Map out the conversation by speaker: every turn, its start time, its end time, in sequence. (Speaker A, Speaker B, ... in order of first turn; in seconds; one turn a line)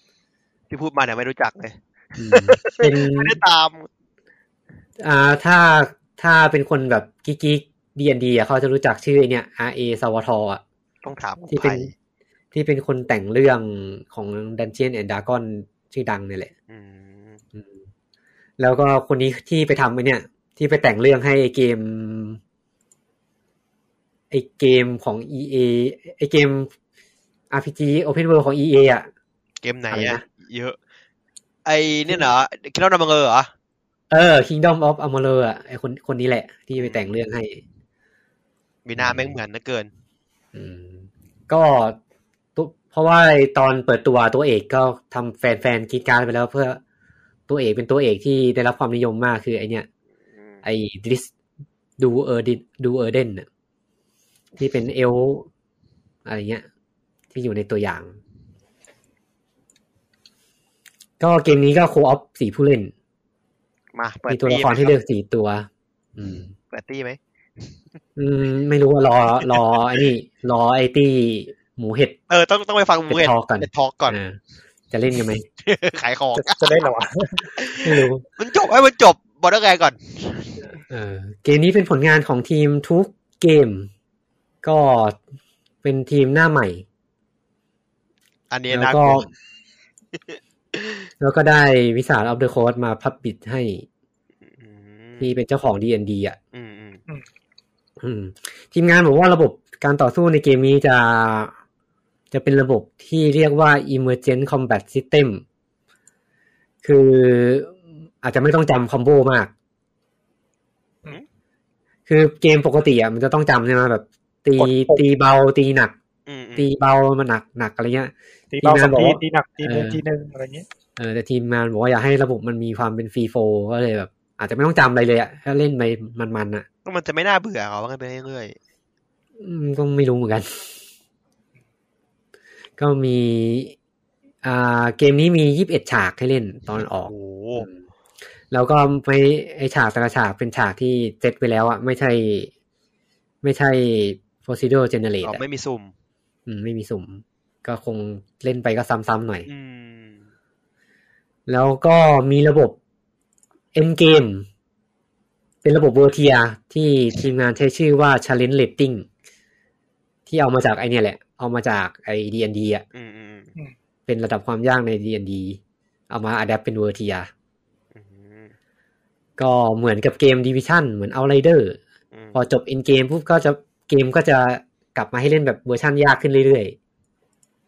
Speaker A: 0.7-3.9
Speaker B: 2.2-3.4
Speaker B: 5.0-10.6
Speaker A: 11.0-11.9
Speaker B: 11.5-11.9
Speaker B: 12.5-16.5
Speaker A: 16.7-17.4
Speaker B: 18.6-22.4
Speaker B: 24.3-26.7
Speaker B: 27.5-29.1
Speaker A: 29.6-30.8
Speaker B: 29.9-30.2
Speaker A: 31.6-33.5
Speaker B: 34.1-37.6
Speaker A: 36.8-37.0
Speaker A: 38.8-39.9
Speaker B: 39.0-39.4
Speaker B: 40.5-42.0
Speaker B: 42.5-46.8
Speaker B: 47.5-49.9
Speaker B: 50.6-51.3
Speaker B: 52.0-53.5
Speaker B: 54.6-55.5
Speaker B: 56.2-56.6
Speaker B: 57.3-58.1
Speaker B: 61.2-62.9
Speaker A: 63.9-64.9
Speaker B: 64.3-66.5
Speaker A: 66.7-67.7
Speaker B: 68.2-72.2
Speaker A: 72.3-74.2
Speaker B: 73.1-74.4
Speaker B: 74.9-75.4
Speaker A: 75.6-76.8
Speaker C: 76.3-77.5
Speaker A: 77.6-80.5
Speaker B: 77.8-78.2
Speaker B: 80.9-83.9
Speaker B: 84.6-85.2
Speaker B: 85.8-86.8
Speaker A: 88.5-89.3
Speaker B: 88.7-89.3
Speaker A: 90.3-91.0
Speaker B: 91.2-93.8
Speaker A: 94.5-95.3
Speaker B: 95.2-96.4
Speaker A: 96.5-97.0
Speaker B: 98.0-101.5
Speaker B: 102.3-105.4
Speaker B: 106.8-109.5
Speaker B: 112.1-115.9
Speaker C: 114.6-115.0
Speaker A: 116.2-116.7
Speaker B: 116.6-120.0
Speaker C: 118.5-120.7
Speaker B: 121.0-126.7
Speaker A: 126.8-128.6
Speaker B: 129.4-130.7
Speaker B: 132.8-133.7
Speaker B: 134.4-137.8
Speaker A: 137.1-137.7
Speaker B: 138.5-142.5
Speaker B: 143.4-145.4
Speaker A: 145.2-145.9
Speaker B: 146.5-149.5
Speaker A: 149.5-150.2
Speaker B: 151.5-152.8
Speaker B: 153.7-154.5
Speaker B: 155.6-159.1
Speaker B: 160.3-162.8
Speaker A: 162.9-163.5
Speaker B: 164.1-165.6
Speaker B: 166.1-167.3
Speaker A: 167.9-168.5
Speaker B: 169.4-171.8
Speaker B: 172.3-176.8